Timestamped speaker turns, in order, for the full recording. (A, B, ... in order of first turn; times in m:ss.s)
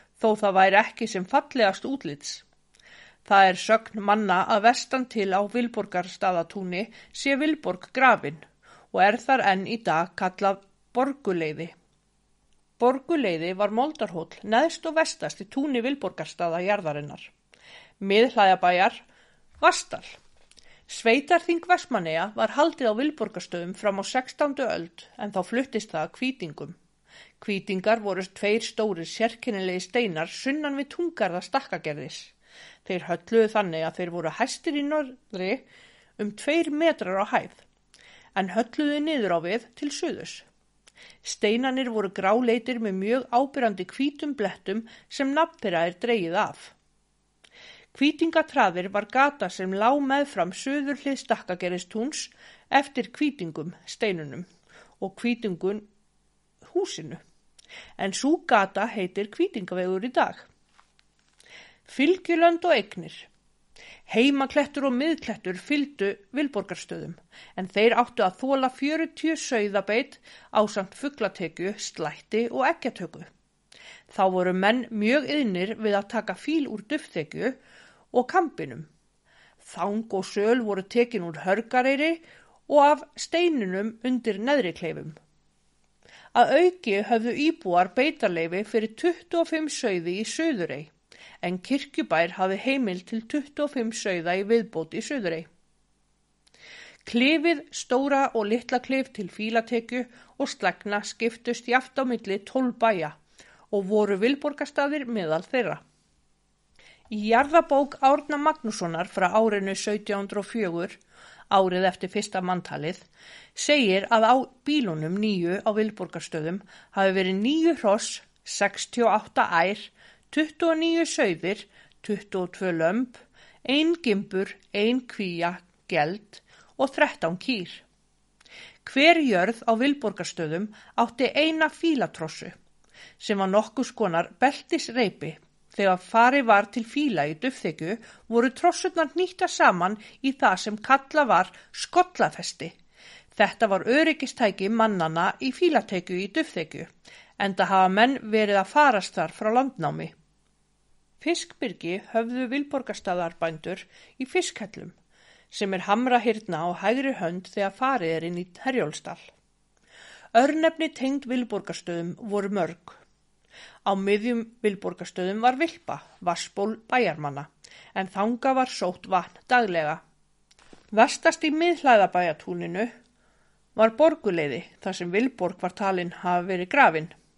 0:00.2-0:02.4 A
0:03.2-0:11.7 A
0:12.8-0:17.3 A
0:18.0-0:19.0 A
0:19.6-0:20.2 A
0:20.9-0:26.8 A
0:27.4-0:35.6 A
0:36.2-0:37.6 A
0:38.4-0:40.5 A
0:41.2-0:46.8 A
0:47.9-0:54.5 A
0:55.0-0:55.9 A
0:56.6-0:57.2 A
0:58.0-1:00.5 A
1:01.9-1:03.3 A
1:04.1-1:13.3 A
1:14.1-1:17.6 A
1:18.1-1:18.9 A
1:19.6-1:25.2 A
1:26.3-1:35.5 A
1:37.0-1:43.2 A
1:43.7-1:45.8 A
1:47.1-2:07.8 A
2:08.8-2:12.6 A
2:13.2-2:22.8 A
2:23.3-2:30.1 A
2:31.2-2:35.0 A
2:35.5-2:39.3 A
2:40.3-2:43.0 A
2:43.8-2:50.0 A
2:50.9-2:52.9 A
2:53.8-2:57.1 A